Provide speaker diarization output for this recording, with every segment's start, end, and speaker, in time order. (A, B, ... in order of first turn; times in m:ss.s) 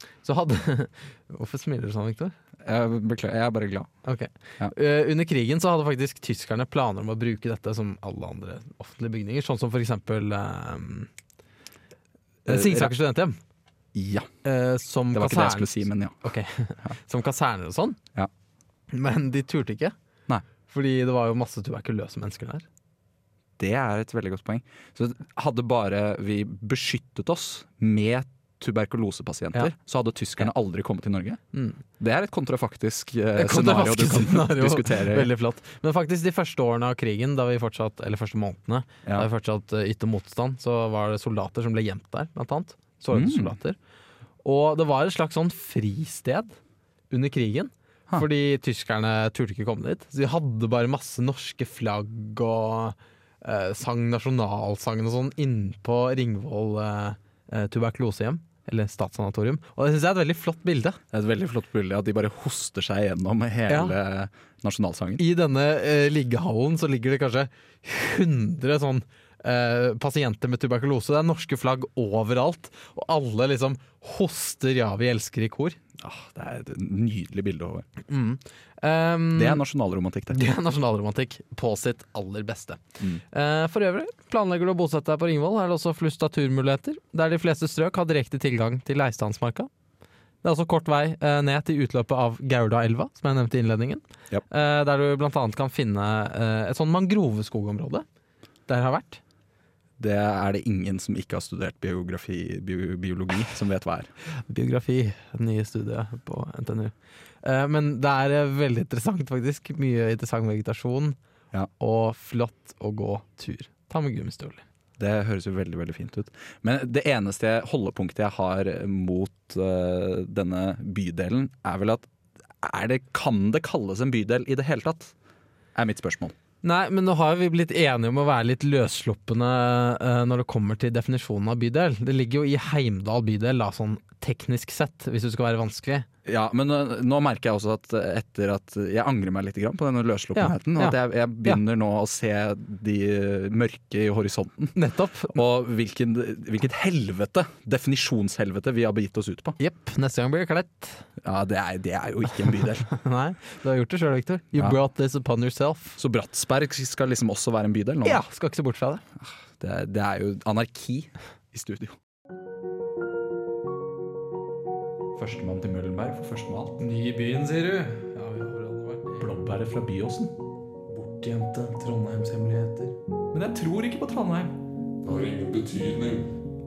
0:00.2-0:02.4 A
0:02.6-0:03.9 B
0:04.0-0:11.1 A
0:12.5-0:13.4 A
0:12.5-0:12.9 B
0:13.9-0:14.3 B
0:14.4-0:18.0 A
0:15.1-0:16.2 B
0:18.9-0:20.0 A
0:20.7-0:22.7 A
0:23.6-0:31.4 B
0:31.5-0:31.8 A
0:32.0-0:35.3 B
0:33.4-0:43.8 A
0:43.1-0:43.6 B
0:44.4-0:46.6 A
0:47.1-1:01.0 A
1:01.1-1:05.2 B
1:03.7-1:04.0 A
1:05.2-1:15.8 A
1:16.0-1:17.9 B
1:18.1-1:19.6 A
1:19.4-1:20.4 B
1:20.3-1:29.7 A
1:30.4-1:38.1 A
1:38.7-1:39.2 A
1:40.0-1:44.1 B
1:44.3-1:51.2 A
1:51.8-1:54.6 A
1:55.0-2:02.1 B
2:02.6-2:05.1 B
2:05.8-2:06.4 B
2:06.6-2:16.1 A
2:16.2-2:24.8 B
2:20.4-2:21.6 A
2:24.8-2:25.4 A
2:25.3-2:29.6 B
2:29.6-2:31.1 A
2:31.2-2:32.9 B
2:32.9-2:36.0 A
2:36.0-2:38.2 B
2:38.0-2:39.0 A
2:39.2-2:42.0 B
2:45.2-2:46.8 B
2:46.8-2:49.3 A
2:49.2-2:50.3 B
2:50.9-2:53.0 A
2:53.3-2:56.3 B